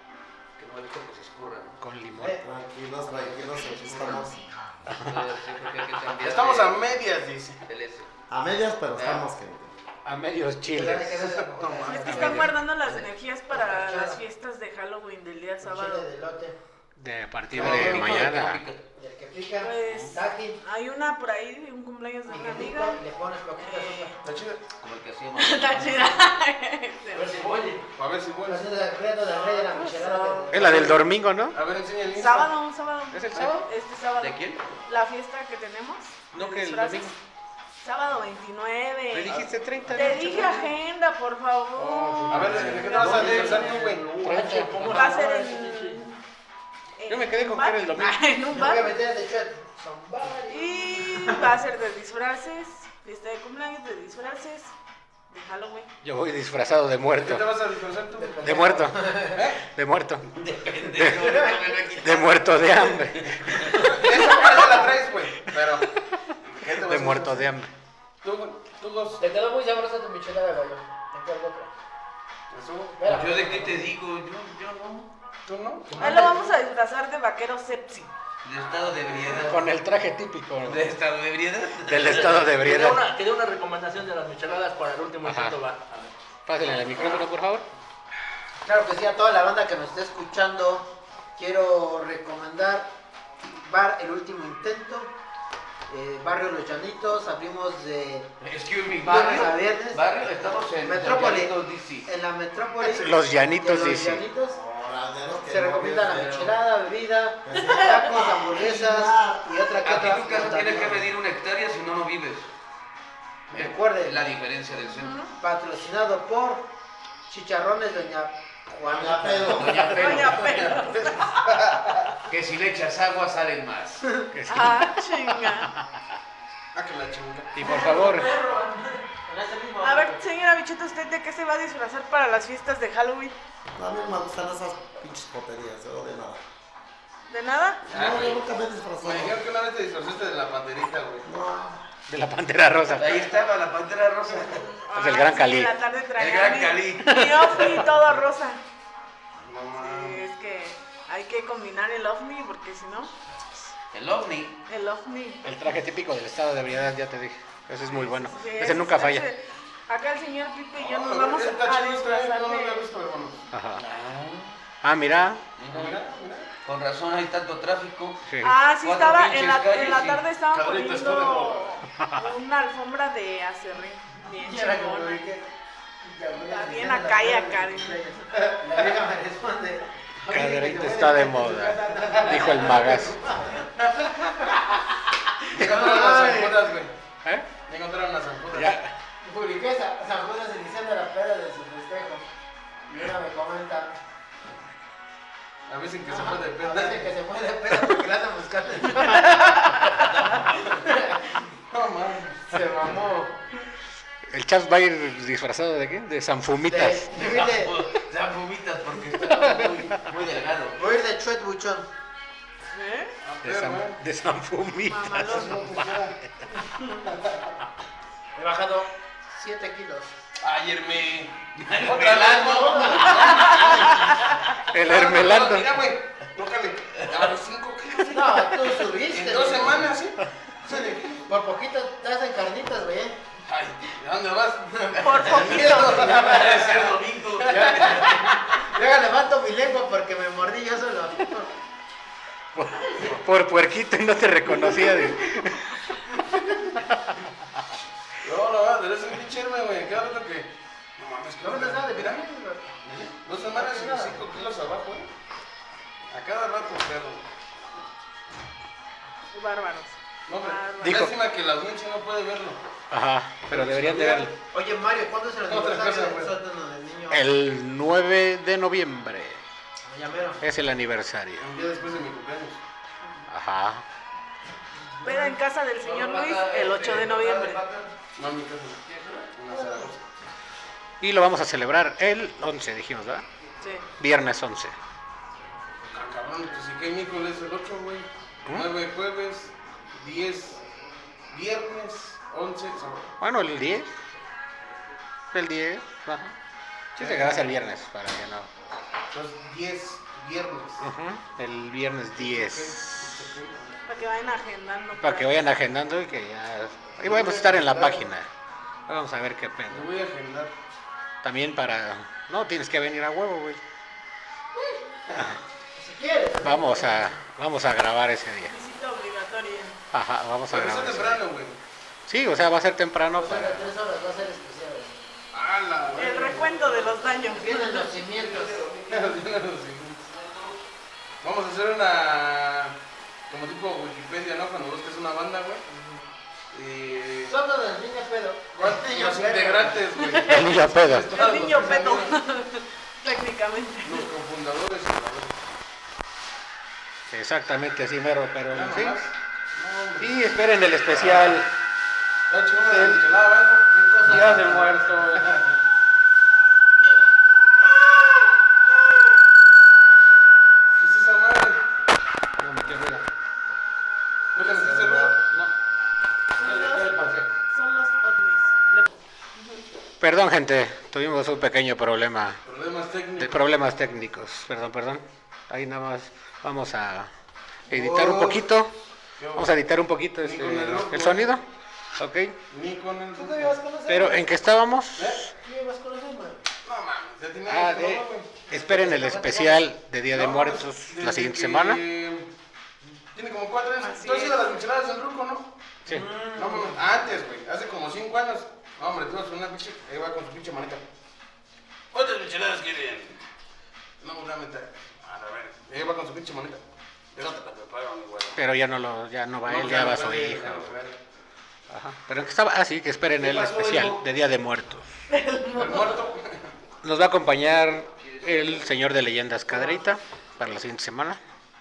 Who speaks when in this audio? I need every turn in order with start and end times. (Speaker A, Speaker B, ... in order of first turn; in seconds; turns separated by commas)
Speaker A: 0.6-1.8, Speaker B: 1.8-2.4, Speaker C: 2.4-4.7, Speaker A: 3.1-4.2, Speaker B: 4.9-5.2, Speaker A: 5.0-6.8, Speaker D: 6.1-7.6, Speaker A: 7.7-8.1, Speaker C: 8.3-9.7, Speaker A: 8.9-9.2, Speaker B: 10.0-11.3, Speaker E: 10.7-14.2, Speaker D: 10.8-12.5, Speaker F: 11.9-16.1, Speaker B: 12.0-12.5, Speaker E: 15.6-16.6, Speaker B: 17.0-18.6, Speaker D: 17.5-18.3, Speaker A: 17.5-18.8, Speaker E: 19.0-20.6, Speaker F: 19.6-23.0, Speaker B: 19.9-20.1, Speaker E: 22.3-24.2, Speaker F: 23.6-24.1, Speaker D: 24.2-24.6, Speaker A: 24.8-26.2, Speaker F: 25.4-27.5, Speaker G: 27.1-27.9, Speaker D: 27.9-28.7, Speaker E: 28.4-31.0, Speaker F: 29.5-30.4, Speaker B: 30.5-31.6, Speaker D: 30.6-31.0, Speaker D: 31.5-32.5, Speaker F: 32.1-37.1, Speaker B: 33.1-33.7, Speaker A: 34.2-34.6, Speaker B: 36.3-37.1, Speaker F: 37.8-43.7, Speaker B: 39.1-40.7, Speaker D: 39.2-39.9, Speaker B: 41.8-42.9, Speaker D: 42.2-44.1, Speaker A: 42.9-44.8, Speaker G: 43.0-46.0, Speaker B: 44.2-45.1, Speaker F: 44.9-46.2, Speaker F: 47.0-48.9, Speaker B: 47.1-48.2, Speaker E: 48.5-51.5, Speaker F: 50.5-54.7, Speaker F: 55.3-55.9, Speaker B: 56.0-57.5, Speaker D: 57.1-58.5, Speaker E: 58.2-59.4, Speaker B: 58.4-60.3, Speaker D: 59.3-59.6, Speaker A: 60.4-63.9, Speaker B: 60.8-61.4, Speaker E: 61.1-61.8, Speaker B: 61.9-64.1, Speaker D: 63.8-65.9, Speaker B: 65.4-67.7, Speaker D: 66.5-67.4, Speaker D: 68.2-69.2, Speaker E: 69.2-71.7, Speaker D: 72.5-73.0, Speaker E: 72.9-73.9, Speaker A: 73.0-75.1, Speaker D: 75.5-76.0, Speaker A: 75.9-76.4, Speaker F: 76.0-78.1, Speaker G: 76.0-76.3, Speaker A: 78.4-79.7, Speaker B: 79.3-80.9, Speaker A: 80.6-82.5, Speaker B: 81.8-83.0, Speaker G: 82.0-85.8, Speaker B: 85.2-85.6, Speaker B: 86.5-87.7, Speaker E: 88.6-92.9, Speaker E: 93.6-95.1, Speaker E: 95.9-98.3, Speaker A: 98.4-102.1, Speaker E: 99.0-100.0, Speaker E: 100.8-101.5, Speaker E: 102.0-104.6, Speaker B: 102.8-104.2, Speaker C: 104.4-106.5, Speaker E: 105.5-111.1, Speaker C: 107.4-109.5, Speaker F: 107.5-108.0, Speaker A: 109.8-112.5, Speaker E: 113.5-114.3, Speaker A: 113.5-115.2, Speaker F: 114.9-115.3, Speaker E: 115.4-116.7, Speaker E: 117.3-120.6, Speaker C: 118.8-120.2, Speaker A: 119.4-120.7, Speaker F: 119.9-121.5, Speaker D: 120.4-122.2, Speaker A: 122.3-124.1, Speaker B: 124.3-125.8, Speaker F: 124.5-125.7, Speaker D: 126.7-127.7, Speaker B: 127.5-128.3, Speaker E: 127.6-130.2, Speaker G: 127.7-128.4, Speaker F: 129.8-133.3, Speaker C: 133.8-136.4, Speaker F: 137.3-137.8, Speaker C: 137.9-139.4, Speaker D: 137.9-138.4, Speaker D: 139.0-141.2, Speaker C: 141.2-141.8, Speaker B: 142.1-143.3, Speaker A: 142.9-144.6, Speaker F: 144.5-148.6, Speaker B: 144.9-145.7, Speaker A: 146.2-147.7, Speaker B: 147.2-147.8, Speaker D: 149.4-150.2, Speaker F: 149.8-153.1, Speaker A: 153.9-154.6, Speaker F: 154.7-155.4, Speaker B: 155.4-159.3, Speaker F: 157.9-162.8, Speaker D: 160.8-163.4, Speaker B: 163.5-163.8, Speaker A: 163.8-164.6, Speaker B: 164.8-165.4, Speaker A: 165.6-166.0, Speaker D: 165.7-166.5, Speaker A: 166.6-168.2, Speaker B: 168.2-168.5, Speaker F: 168.4-175.2, Speaker A: 168.8-170.2, Speaker D: 170.5-171.7, Speaker B: 171.9-172.2, Speaker E: 174.3-175.4, Speaker E: 176.0-183.7, Speaker F: 176.4-178.2, Speaker B: 180.3-183.2, Speaker D: 182.1-182.8, Speaker D: 183.8-184.5, Speaker B: 185.5-186.7, Speaker D: 185.5-186.9, Speaker E: 185.6-186.3, Speaker B: 187.2-187.5, Speaker D: 187.7-188.7, Speaker B: 188.5-188.9, Speaker E: 189.2-192.2, Speaker E: 192.9-193.9, Speaker D: 195.7-197.1, Speaker E: 196.1-200.1, Speaker F: 199.1-200.1, Speaker A: 200.0-200.8, Speaker E: 200.6-201.4, Speaker D: 201.7-202.5, Speaker E: 202.5-203.4, Speaker B: 204.3-207.1, Speaker E: 206.7-207.8, Speaker A: 207.1-210.8, Speaker B: 209.3-210.0, Speaker E: 210.7-211.9, Speaker F: 212.7-213.1, Speaker D: 213.2-214.0, Speaker B: 213.4-216.3, Speaker F: 214.9-215.6, Speaker D: 215.3-216.2, Speaker D: 217.1-217.5, Speaker E: 218.3-220.1, Speaker D: 220.4-224.0, Speaker A: 221.5-223.9, Speaker E: 222.3-224.1, Speaker B: 224.7-225.7, Speaker D: 224.8-231.2, Speaker E: 228.1-229.9, Speaker E: 230.7-233.2, Speaker D: 233.4-238.1, Speaker E: 234.9-236.7, Speaker F: 235.0-236.1, Speaker A: 236.1-238.1, Speaker E: 237.4-241.5, Speaker B: 242.5-246.2, Speaker B: 246.8-247.3, Speaker D: 248.2-252.2, Speaker E: 251.4-252.7, Speaker D: 252.9-255.1, Speaker E: 253.5-254.3, Speaker D: 256.1-257.2, Speaker F: 259.3-261.1, Speaker D: 260.3-262.6, Speaker B: 260.8-261.1, Speaker B: 262.9-264.3, Speaker D: 263.5-264.3, Speaker E: 264.5-267.3, Speaker D: 265.4-266.3, Speaker B: 267.1-269.4, Speaker E: 269.8-270.4, Speaker B: 270.4-271.4, Speaker D: 271.4-272.6, Speaker B: 273.3-273.8, Speaker F: 275.0-277.6, Speaker A: 275.8-277.9, Speaker D: 278.1-278.8, Speaker A: 278.9-279.3, Speaker D: 279.3-280.0, Speaker B: 281.0-283.2, Speaker B: 284.0-284.7, Speaker D: 285.9-290.6, Speaker D: 291.3-293.1, Speaker B: 293.2-293.9, Speaker B: 295.3-296.3, Speaker B: 296.9-298.5, Speaker D: 297.0-297.6, Speaker D: 299.1-300.9, Speaker B: 300.8-303.2, Speaker D: 302.1-303.7, Speaker F: 303.9-305.4, Speaker B: 305.0-308.3, Speaker D: 307.0-308.1, Speaker B: 308.9-309.9, Speaker D: 309.7-310.5, Speaker B: 311.2-313.6, Speaker E: 315.8-317.2, Speaker B: 316.4-318.5, Speaker F: 318.5-319.8, Speaker B: 319.9-321.2, Speaker D: 320.5-321.6, Speaker B: 322.1-323.7, Speaker E: 323.1-324.9, Speaker D: 325.3-327.1, Speaker F: 325.9-327.9, Speaker E: 326.0-326.4, Speaker E: 327.2-328.9, Speaker D: 328.1-330.0, Speaker A: 330.1-330.5, Speaker D: 331.2-332.8, Speaker D: 333.3-335.6, Speaker E: 335.7-336.0, Speaker D: 336.5-337.4, Speaker E: 337.3-339.8, Speaker D: 338.6-342.2, Speaker F: 339.9-344.1, Speaker B: 340.3-341.1, Speaker D: 343.8-345.3, Speaker B: 347.1-349.0, Speaker D: 348.5-351.4, Speaker B: 350.0-351.5, Speaker D: 352.3-355.6, Speaker B: 352.6-353.0, Speaker E: 353.7-355.0, Speaker B: 354.1-354.7, Speaker D: 360.8-361.6, Speaker B: 362.4-363.0, Speaker D: 364.3-365.2, Speaker B: 365.2-365.5, Speaker F: 366.4-369.6, Speaker B: 366.4-367.3, Speaker B: 370.0-372.4, Speaker D: 372.4-373.4, Speaker B: 373.2-377.1, Speaker B: 377.7-378.7, Speaker E: 377.7-378.4, Speaker D: 379.2-379.5, Speaker B: 379.3-381.4, Speaker D: 380.2-381.3, Speaker B: 382.0-382.4, Speaker D: 382.5-383.6, Speaker E: 383.1-384.3, Speaker B: 383.9-385.3, Speaker D: 384.9-385.2, Speaker E: 385.4-386.4, Speaker D: 386.6-388.5, Speaker B: 387.5-391.8, Speaker E: 388.5-389.7, Speaker D: 390.1-392.3, Speaker D: 393.1-395.5, Speaker F: 393.8-394.6, Speaker E: 395.9-396.7, Speaker D: 396.3-400.8, Speaker D: 401.9-403.2, Speaker D: 404.0-406.6, Speaker D: 407.1-408.4, Speaker B: 408.4-410.7, Speaker D: 409.4-410.9, Speaker B: 411.7-414.9, Speaker A: 413.2-414.0, Speaker D: 413.3-413.6, Speaker F: 415.1-415.9, Speaker D: 415.5-416.4, Speaker B: 416.8-421.2, Speaker A: 417.9-418.7